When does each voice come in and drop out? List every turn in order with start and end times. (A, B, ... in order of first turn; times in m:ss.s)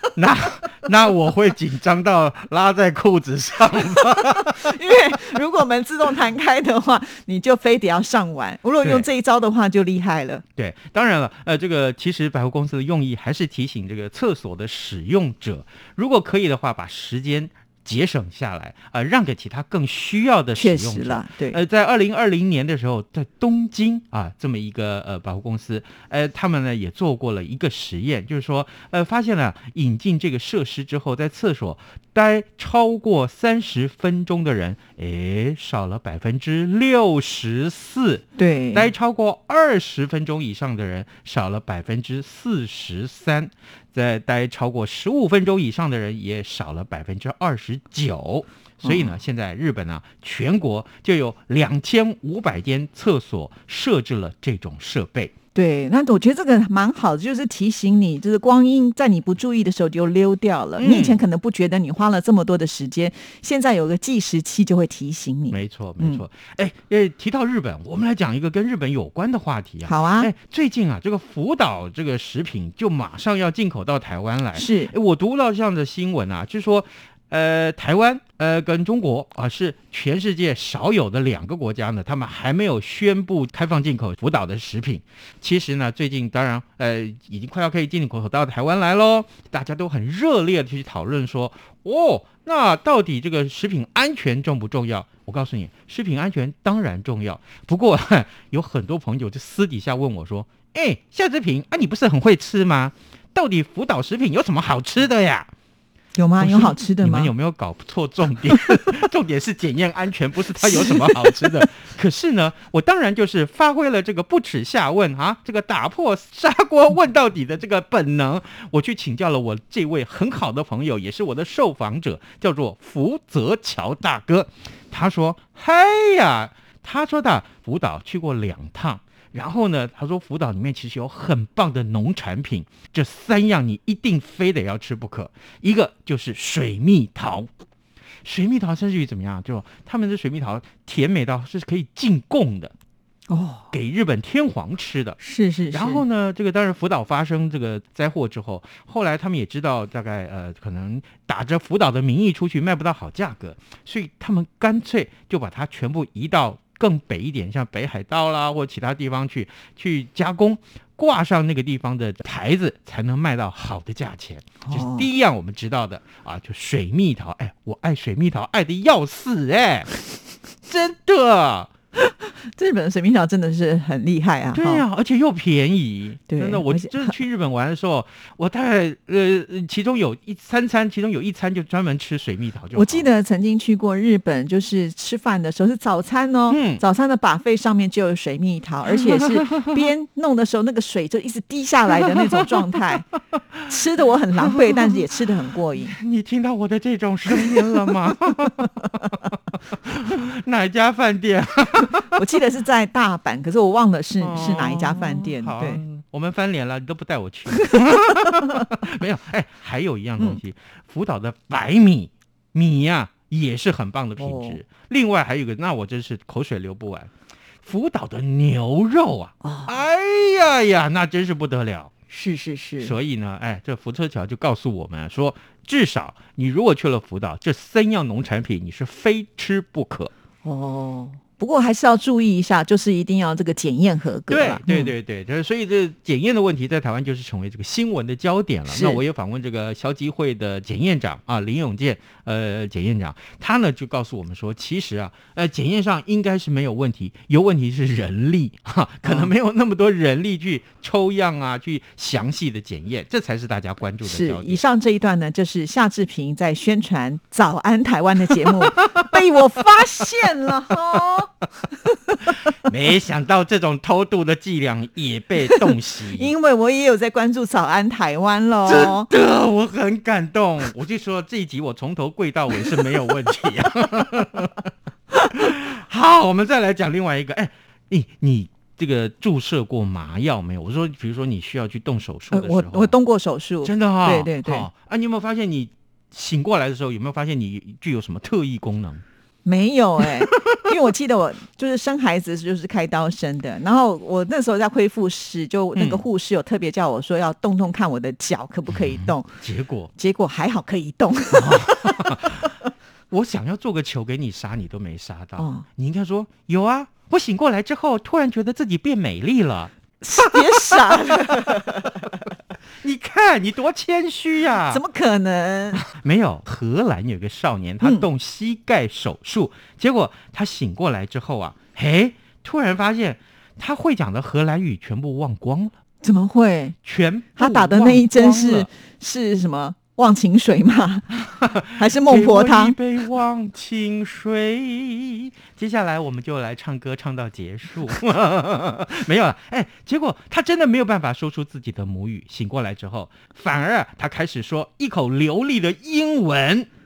0:00.2-0:04.8 A
0:04.4-0:10.4 B
0:08.8-0:09.1 A
0:10.6-0:55.3 A
0:20.6-0:21.6 B
0:38.4-0:38.9 B
0:48.8-0:49.2 B
0:55.5-1:06.2 B
1:00.8-1:01.2 A
1:05.5-1:45.5 A
1:09.8-1:10.3 B
1:14.6-1:14.9 B
1:46.1-1:47.3 B
1:46.4-2:17.5 A
1:50.6-1:51.6 B
2:18.2-2:22.7 A
2:23.3-2:23.7 B
2:23.7-2:25.2 A
2:25.2-2:26.0 B
2:25.7-2:49.9 A
2:44.6-2:45.1 B
2:50.7-2:51.7 A
2:52.0-2:54.8 B
2:54.5-3:03.1 A
2:56.3-2:57.2 B
3:02.8-3:13.1 B
3:06.5-3:06.8 A
3:08.9-3:09.9 A
3:11.9-3:13.0 A
3:13.7-3:16.0 B
3:14.4-3:15.0 A
3:15.8-3:22.2 A
3:17.4-3:17.9 B
3:22.1-3:25.8 B
3:24.2-3:37.1 A
3:34.2-3:34.6 B
3:37.6-3:41.9 A
3:39.4-3:39.7 B
3:42.1-3:43.0 B
3:42.8-3:50.1 A
3:50.4-3:55.0 B
3:54.3-4:14.6 A
3:58.7-3:59.0 B
4:09.0-4:09.3 B
4:14.0-4:21.3 B
4:18.5-4:18.9 A
4:22.6-4:26.3 A
4:25.5-4:29.1 B
4:28.7-4:34.7 A
4:35.3-4:43.0 A
4:42.3-4:44.7 B
4:43.6-4:49.0 A
4:49.4-4:59.3 B
4:50.0-4:50.6 A
4:55.8-4:56.0 A
4:58.7-4:59.9 A
5:00.0-5:02.1 B
5:01.3-5:02.5 A
5:03.1-5:12.1 A
5:05.4-5:05.6 B
5:10.0-5:12.1 B
5:12.8-5:14.8 A
5:14.7-5:15.8 B
5:15.8-5:25.8 A
5:17.8-5:18.1 B
5:26.0-5:26.8 B
5:26.8-5:28.7 A
5:27.4-5:31.2 B
5:31.2-5:46.7 A
5:31.7-5:32.8 B